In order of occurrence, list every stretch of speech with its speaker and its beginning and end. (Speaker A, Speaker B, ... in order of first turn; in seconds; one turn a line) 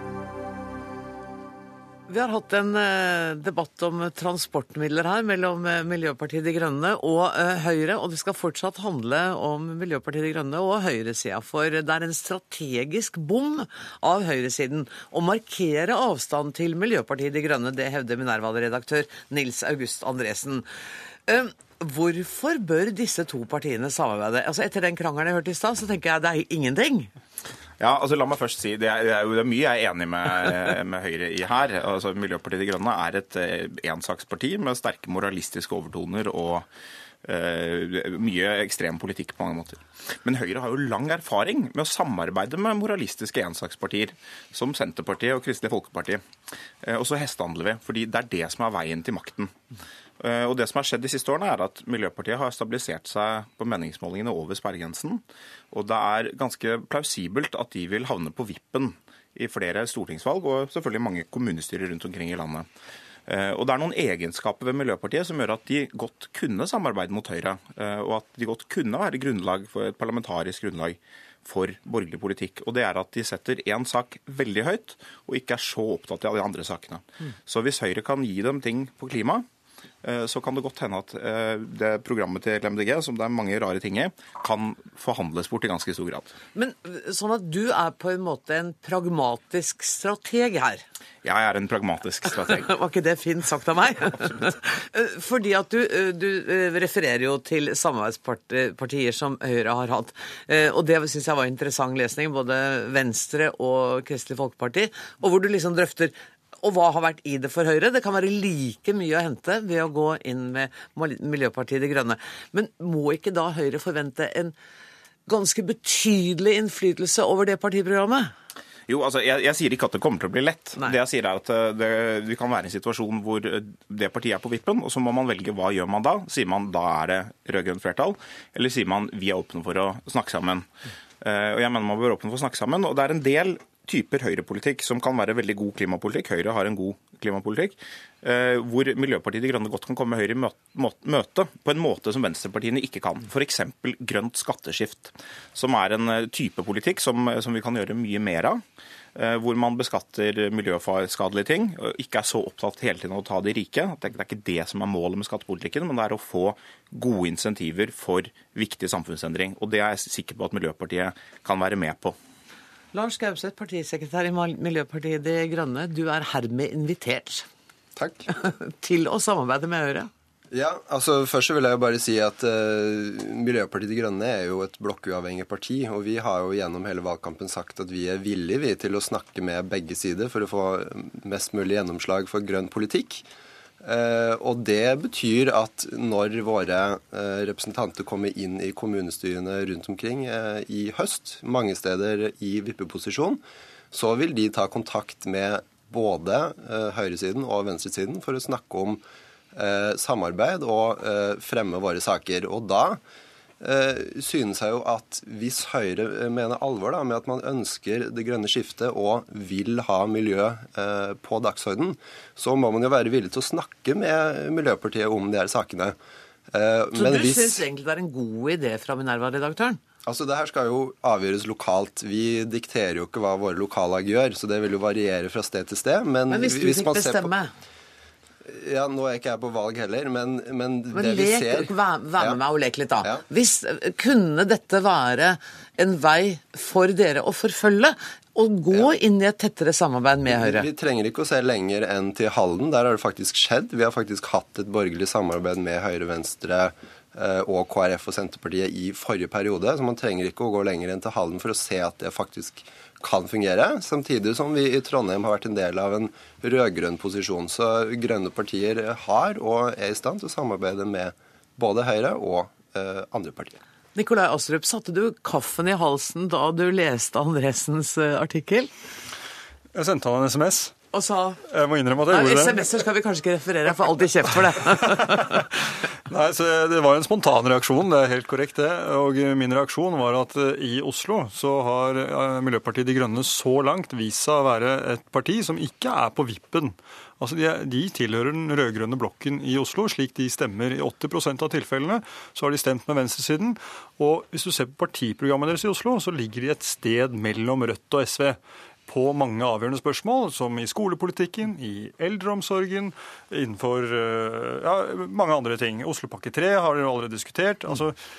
Speaker A: 2.1-20.6
Speaker A: 21.2-27.1
Speaker B: 27.8-36.7
Speaker B: 37.2-46.2
Speaker B: 46.8-49.5
Speaker B: 50.2-62.7
Speaker B: 63.3-79.5
Speaker B: 80.0-86.3
Speaker A: 86.5-90.8
Speaker B: 91.2-92.7
Speaker A: 92.5-114.5
Speaker A: 115.3-118.3
Speaker B: 118.9-130.7
Speaker B: 131.2-148.6
Speaker B: 149.2-162.2
Speaker A: 162.9-167.5
Speaker C: 167.9-168.3
Speaker A: 168.3-170.1
Speaker C: 170.5-183.2
Speaker C: 183.8-193.4
Speaker C: 193.9-199.0
Speaker C: 199.5-203.0
Speaker C: 203.6-216.0
Speaker C: 216.5-217.6
Speaker A: 216.9-219.8
Speaker C: 220.1-227.3
Speaker A: 226.3-227.5
Speaker C: 228.5-232.4
Speaker A: 230.9-240.7
Speaker C: 233.0-233.2
Speaker C: 240.3-263.6
Speaker A: 263.9-268.7
Speaker D: 269.7-270.7
Speaker A: 270.9-271.4
Speaker D: 271.5-272.6
Speaker A: 272.1-275.4
Speaker D: 274.8-275.5
Speaker D: 276.1-308.0